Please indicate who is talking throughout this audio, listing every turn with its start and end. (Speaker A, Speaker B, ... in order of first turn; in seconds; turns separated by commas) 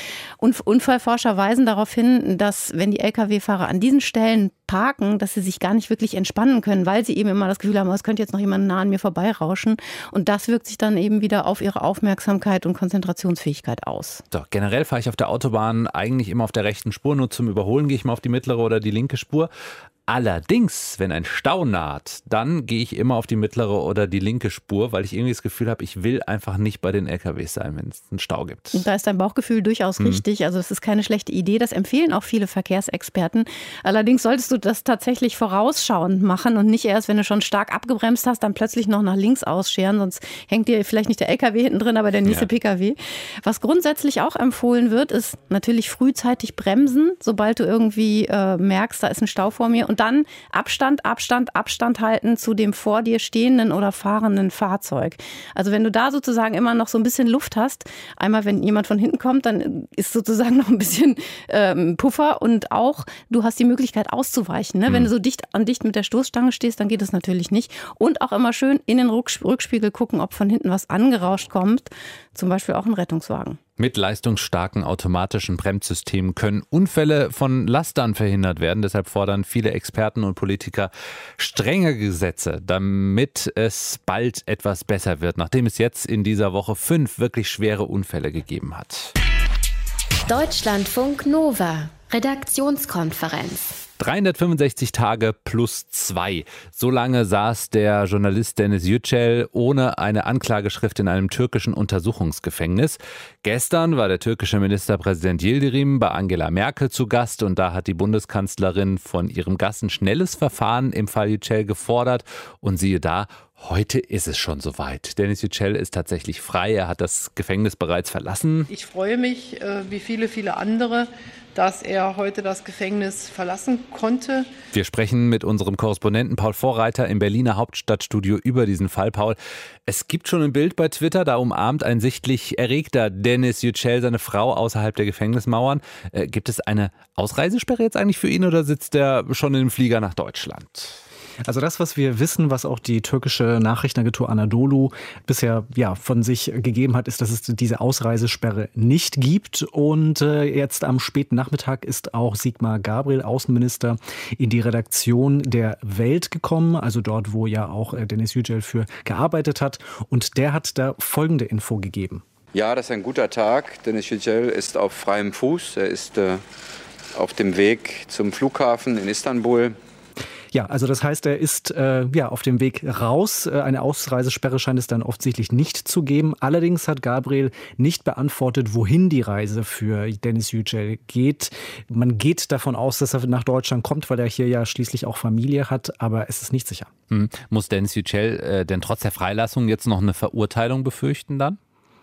Speaker A: 0.4-14.2, Speaker B: 14.3-19.5, Speaker B: 20.1-28.9, Speaker A: 28.7-73.6, Speaker B: 73.8-89.1, Speaker C: 90.3-93.8, Speaker B: 94.0-118.7, Speaker D: 118.7-124.5, Speaker B: 124.7-141.0, Speaker E: 141.4-162.2, Speaker F: 162.5-166.4, Speaker F: 167.2-169.8, Speaker E: 170.5-186.9, Speaker B: 187.1-191.6